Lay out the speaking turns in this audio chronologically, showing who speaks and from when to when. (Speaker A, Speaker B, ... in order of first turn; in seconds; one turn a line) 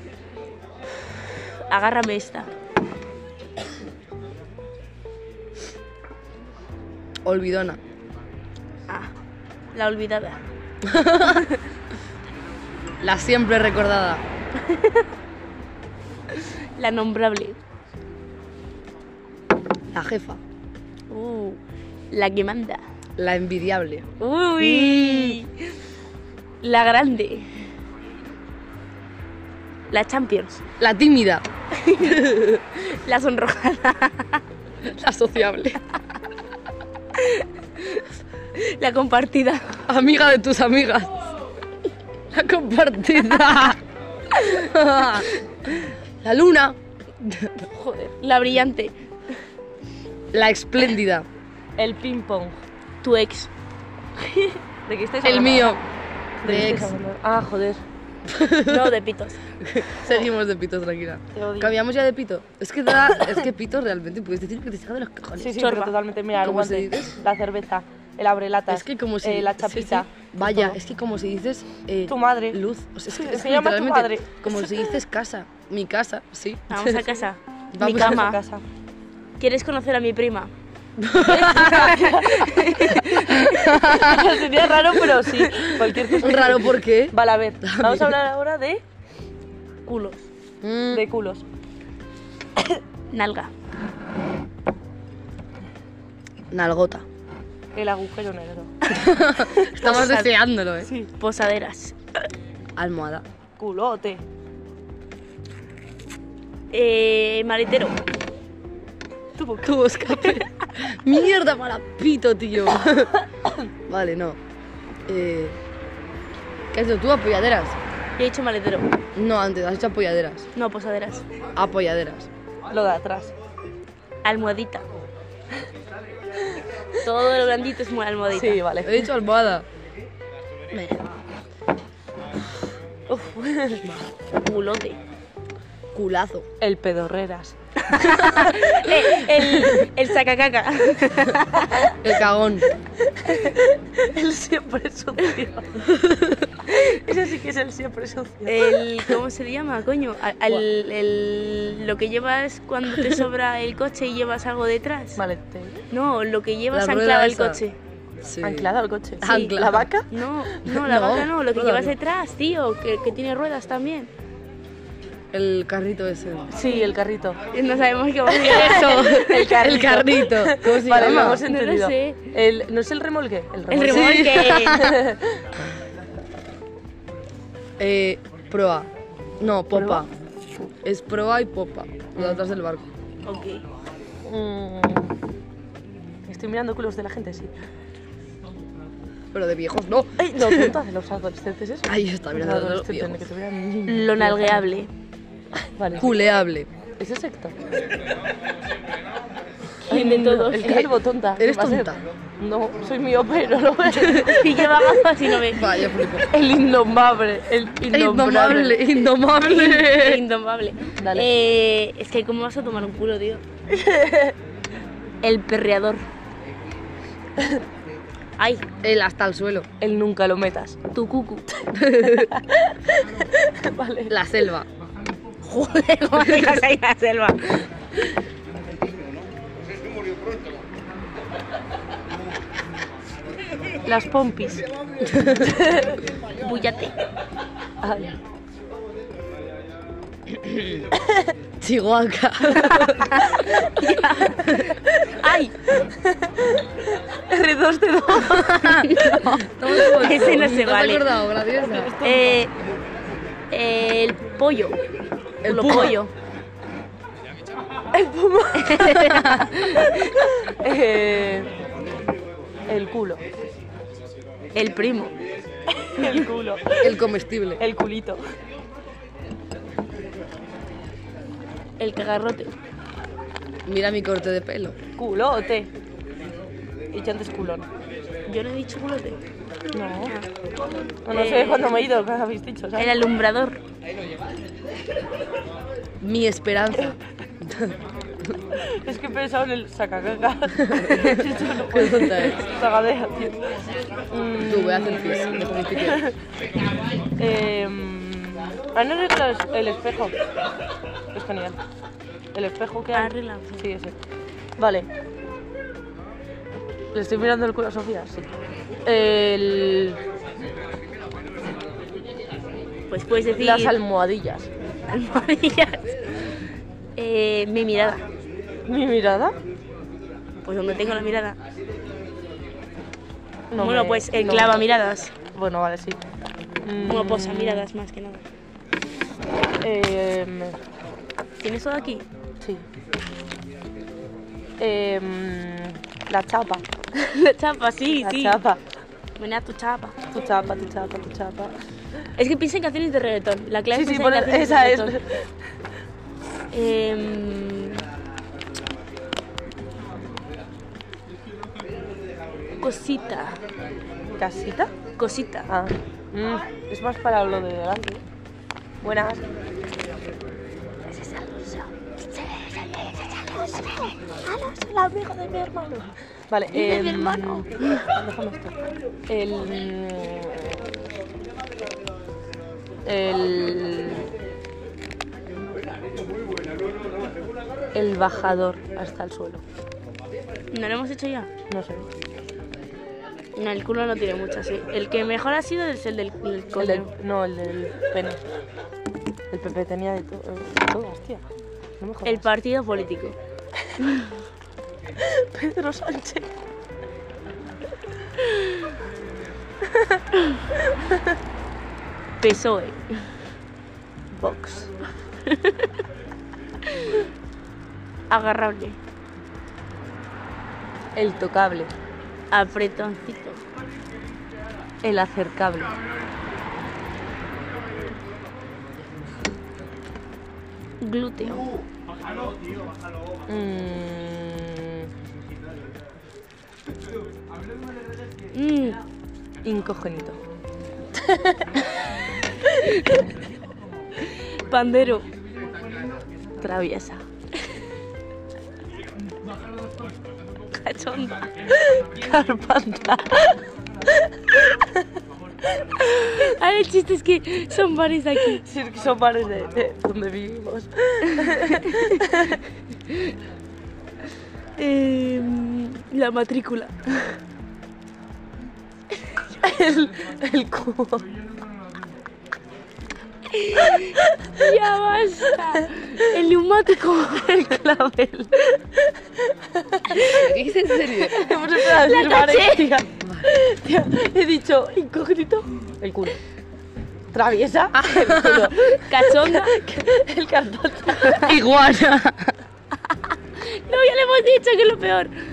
Speaker A: 1.7-2.5
Speaker B: 7.2-7.8
Speaker A: 9.7-10.4
Speaker B: 10.8-11.5
Speaker A: 11.2-11.6
Speaker B: 13.0-14.2
Speaker A: 14.6-15.0
Speaker A: 16.4-17.6
Speaker B: 19.9-20.4
Speaker A: 21.1-21.6
Speaker A: 22.1-22.8
Speaker B: 23.2-24.1
Speaker A: 24.2-25.6
Speaker C: 24.7-25.4
Speaker A: 26.6-27.7
Speaker A: 29.9-30.6
Speaker B: 30.8-31.4
Speaker A: 31.8-32.2
Speaker B: 32.0-32.6
Speaker A: 32.7-34.4
Speaker B: 34.8-35.8
Speaker A: 37.2-38.0
Speaker A: 38.5-39.8
Speaker B: 39.9-41.1
Speaker B: 42.3-43.8
Speaker B: 44.4-45.3
Speaker B: 46.2-47.6
Speaker A: 47.7-48.9
Speaker B: 50.3-51.2
Speaker C: 51.8-52.6
Speaker A: 53.0-53.5
Speaker C: 54.9-55.8
Speaker B: 55.2-55.8
Speaker C: 56.4-57.8
Speaker B: 56.4-56.9
Speaker B: 58.3-58.9
Speaker A: 58.7-59.4
Speaker B: 59.6-65.7
Speaker C: 61.3-61.7
Speaker C: 65.4-70.8
Speaker A: 65.6-66.0
Speaker B: 66.4-67.2
Speaker B: 68.7-77.2
Speaker C: 72.1-74.8
Speaker A: 76.7-78.4
Speaker B: 77.7-78.3
Speaker C: 77.8-78.6
Speaker A: 79.4-80.5
Speaker B: 81.0-82.0
Speaker A: 81.2-84.3
Speaker C: 81.8-82.5
Speaker B: 83.1-84.3
Speaker C: 83.8-88.8
Speaker B: 85.5-88.1
Speaker A: 89.8-90.2
Speaker B: 90.6-91.0
Speaker C: 90.9-91.4
Speaker A: 93.1-93.5
Speaker B: 96.5-97.0
Speaker C: 97.7-98.7
Speaker B: 98.9-100.9
Speaker A: 99.7-100.3
Speaker C: 100.8-101.1
Speaker A: 101.2-102.0
Speaker B: 102.8-103.2
Speaker C: 103.6-104.2
Speaker A: 106.7-108.0
Speaker C: 109.3-110.4
Speaker B: 109.6-113.1
Speaker B: 113.9-114.4
Speaker B: 115.1-115.6
Speaker B: 116.7-117.8
Speaker A: 118.2-118.9
Speaker B: 119.1-120.5
Speaker A: 120.5-121.2
Speaker B: 121.5-122.3
Speaker C: 122.7-123.3
Speaker A: 124.2-124.8
Speaker A: 127.0-128.6
Speaker C: 128.3-129.1
Speaker B: 128.8-129.7
Speaker B: 130.7-131.0
Speaker C: 133.1-133.9
Speaker A: 134.4-135.0
Speaker B: 135.9-136.4
Speaker C: 136.6-137.5
Speaker A: 137.8-141.9
Speaker C: 139.3-139.8
Speaker B: 142.0-142.7
Speaker C: 143.1-145.8
Speaker B: 145.9-146.4
Speaker C: 146.7-149.1
Speaker A: 148.4-155.2
Speaker C: 155.2-155.8
Speaker A: 155.9-157.8
Speaker B: 156.7-157.6
Speaker B: 158.2-159.9
Speaker C: 158.4-160.1
Speaker A: 159.2-164.1
Speaker B: 160.7-161.9
Speaker B: 165.3-166.5
Speaker C: 166.5-167.4
Speaker A: 166.6-166.9
Speaker A: 167.5-169.8
Speaker B: 168.3-171.4
Speaker C: 168.4-175.4
Speaker A: 171.1-172.3
Speaker A: 173.7-174.9
Speaker B: 173.8-175.0
Speaker B: 177.8-178.9
Speaker B: 179.4-180.1
Speaker C: 179.7-180.0
Speaker B: 180.8-182.9
Speaker A: 183.2-183.6
Speaker C: 184.2-185.1
Speaker C: 186.3-187.5
Speaker B: 189.3-190.8
Speaker C: 190.2-194.6
Speaker B: 191.9-193.2
Speaker A: 193.9-194.9
Speaker C: 195.8-196.1
Speaker B: 196.0-196.7
Speaker C: 197.0-197.6
Speaker A: 199.9-200.8
Speaker C: 199.9-205.1
Speaker B: 200.6-202.0
Speaker B: 203.9-204.2
Speaker A: 204.1-205.8
Speaker B: 205.5-206.3
Speaker C: 206.2-208.8
Speaker B: 207.9-210.2
Speaker A: 209.4-213.4
Speaker C: 211.0-211.3
Speaker C: 213.7-214.3
Speaker A: 215.2-216.0
Speaker A: 218.4-218.6
Speaker B: 218.8-219.7
Speaker C: 219.8-220.8
Speaker A: 220.9-221.5
Speaker B: 221.7-222.3
Speaker C: 222.0-224.2
Speaker B: 224.1-224.7
Speaker A: 225.4-227.6
Speaker B: 226.2-226.5
Speaker C: 233.8-234.6
Speaker B: 235.0-235.5
Speaker C: 235.5-236.0
Speaker A: 236.4-236.9
Speaker C: 237.8-238.1
Speaker B: 240.3-240.9
Speaker B: 241.6-243.4
Speaker A: 242.6-245.5
Speaker C: 245.8-249.9
Speaker B: 248.2-251.9
Speaker A: 248.8-251.2
Speaker C: 251.4-252.4
Speaker A: 252.0-252.5
Speaker A: 253.5-254.8
Speaker B: 255.4-256.0
Speaker A: 255.4-256.1
Speaker C: 257.9-259.2
Speaker A: 258.5-260.3
Speaker B: 259.1-259.5
Speaker C: 260.0-261.5
Speaker C: 262.7-263.2
Speaker A: 264.5-265.1
Speaker C: 265.7-267.0
Speaker B: 266.8-267.6
Speaker C: 267.6-268.2
Speaker A: 271.8-272.5
Speaker B: 273.6-274.8
Speaker C: 275.0-275.7
Speaker C: 276.9-277.7
Speaker A: 278.3-279.2
Speaker C: 279.7-280.1
Speaker C: 281.0-282.9
Speaker A: 281.1-281.8
Speaker A: 282.8-283.6
Speaker B: 286.0-287.8
Speaker C: 288.6-293.4
Speaker B: 290.6-292.4
Speaker C: 294.1-296.1
Speaker B: 294.4-296.0
Speaker C: 297.2-300.1
Speaker C: 301.1-301.6
Speaker C: 302.3-303.9
Speaker A: 302.9-303.6
Speaker C: 304.6-304.9
Speaker C: 306.9-308.3
Speaker C: 308.8-310.0
Speaker A: 312.9-313.7
Speaker C: 313.4-314.5
Speaker A: 314.9-315.9
Speaker A: 317.0-318.0
Speaker C: 318.7-319.4
Speaker A: 320.4-321.4
Speaker C: 323.5-324.6
Speaker A: 323.6-325.1
Speaker C: 325.2-326.0
Speaker C: 326.6-327.7
Speaker A: 326.8-328.2
Speaker C: 329.6-330.6
Speaker A: 331.4-332.1
Speaker C: 334.6-336.6
Speaker A: 336.9-338.4
Speaker C: 338.0-338.6
Speaker A: 339.2-340.0
Speaker C: 340.1-341.5
Speaker A: 342.1-345.0
Speaker C: 343.7-345.2
Speaker A: 346.5-347.8
Speaker A: 352.6-353.4
Speaker C: 354.2-354.7
Speaker A: 355.0-355.5
Speaker C: 355.5-358.0
Speaker C: 358.8-359.2
Speaker C: 360.9-368.6
Speaker A: 366.5-367.9
Speaker C: 369.1-370.6
Speaker C: 372.9-374.1
Speaker C: 377.7-379.4
Speaker A: 380.5-381.3
Speaker C: 381.5-381.8
Speaker A: 383.4-386.9
Speaker C: 386.6-388.2
Speaker C: 389.3-391.2
Speaker C: 391.8-392.2
Speaker A: 392.0-393.1
Speaker A: 393.8-394.1
Speaker C: 395.0-396.3
Speaker A: 398.2-398.5
Speaker A: 402.2-403.0
Speaker C: 404.1-404.7
Speaker A: 405.2-405.7
Speaker A: 408.1-408.8
Speaker C: 410.9-411.7
Speaker A: 412.3-413.4
Speaker C: 414.8-415.7
Speaker A: 420.8-421.5
Speaker C: 423.3-424.9
Speaker A: 428.3-428.8
Speaker C: 429.4-430.2
Speaker C: 431.0-431.5
Speaker A: 434.3-435.1
Speaker C: 436.4-437.0
Speaker A: 440.5-441.3
Speaker C: 441.6-443.4
Speaker C: 444.0-444.8
Speaker A: 445.8-448.4
Speaker C: 448.4-452.4
Speaker A: 451.1-452.0
Speaker A: 452.9-453.1
Speaker A: 454.6-457.2
Speaker C: 459.4-461.1
Speaker A: 463.3-467.6
Speaker C: 467.2-470.2
Speaker B: 469.9-471.1
Speaker C: 470.9-476.2
Speaker A: 470.9-472.7
Speaker B: 473.0-473.3
Speaker C: 477.1-481.4
Speaker B: 477.8-478.5
Speaker A: 478.5-479.5
Speaker B: 481.0-482.3
Speaker A: 483.4-485.1